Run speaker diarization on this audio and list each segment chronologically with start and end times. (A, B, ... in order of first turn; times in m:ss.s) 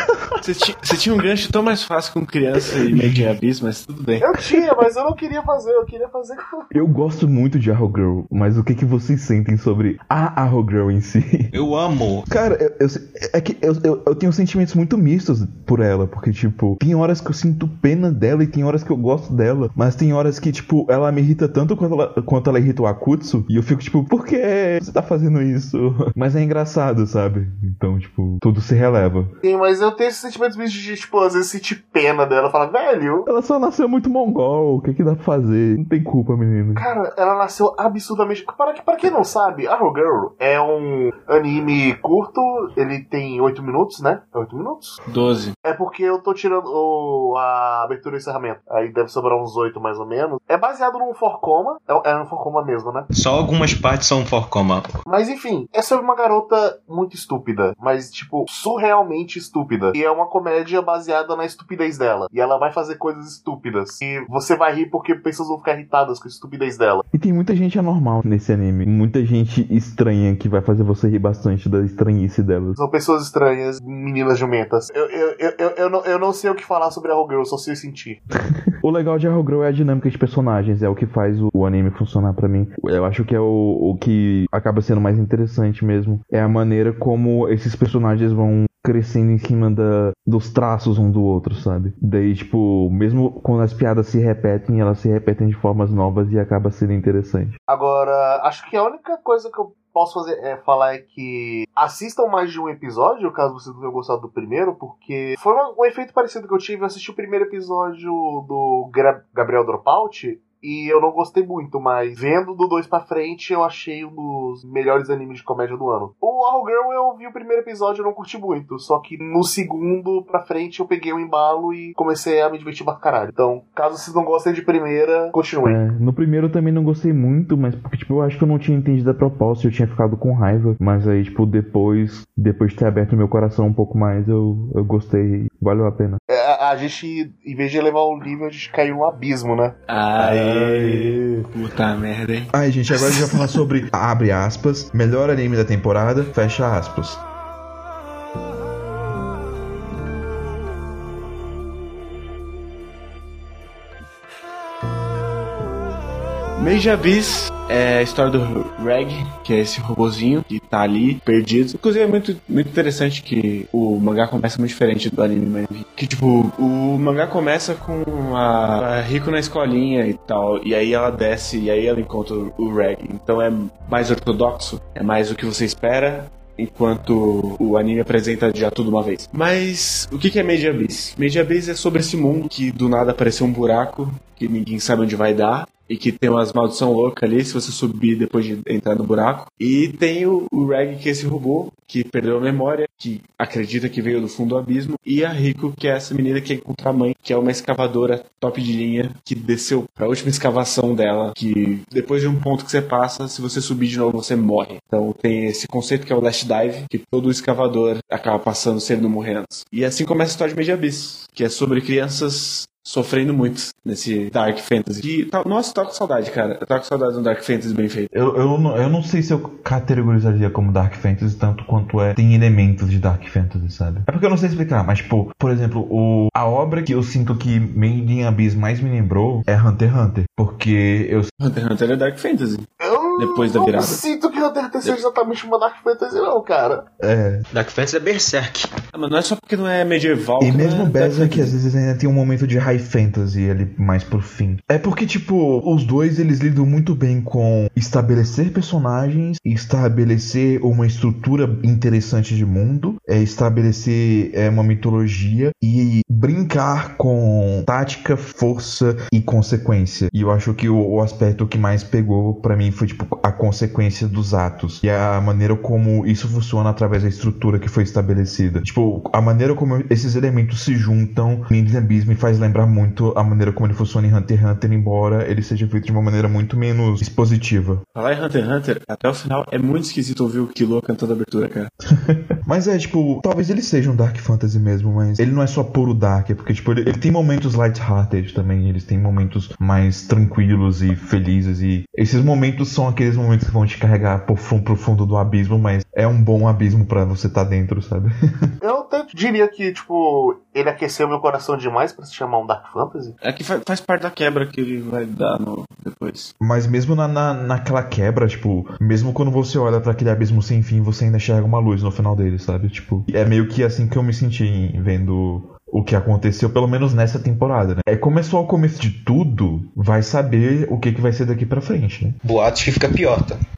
0:00.4-0:04.4 A
0:02.8-0:03.3 B
0:04.2-0:06.7 C
0:06.7-0:11.5 B
0:11.5-0:12.3 D
0:12.3-0:29.3 B
0:29.4-0:33.3 C
0:33.2-0:36.9 B
0:36.7-0:45.0 C
0:45.0-0:45.6 A
0:45.6-0:53.1 C
0:53.1-0:54.9 D
0:55.0-1:07.0 C
1:07.1-1:12.8 B
1:12.8-1:18.2 C
1:18.3-1:37.5 B
1:37.7-2:05.8 C
2:05.6-2:16.2 B
2:16.3-2:21.4 C
2:19.9-2:22.5 A
2:22.5-2:27.2 B
2:36.6-3:38.1 A
3:38.1-3:51.3 B
3:51.4-3:54.0 A
3:52.8-3:56.8 C
3:57.0-3:57.4 B
3:57.5-3:58.7 D
3:58.9-4:01.5 A
4:00.4-4:37.8 B
4:37.9-4:41.7 A
4:41.9-4:58.1 B
4:58.6-5:03.2 C
5:03.2-5:06.3 A
5:06.4-5:22.2 B
5:22.2-5:23.4 D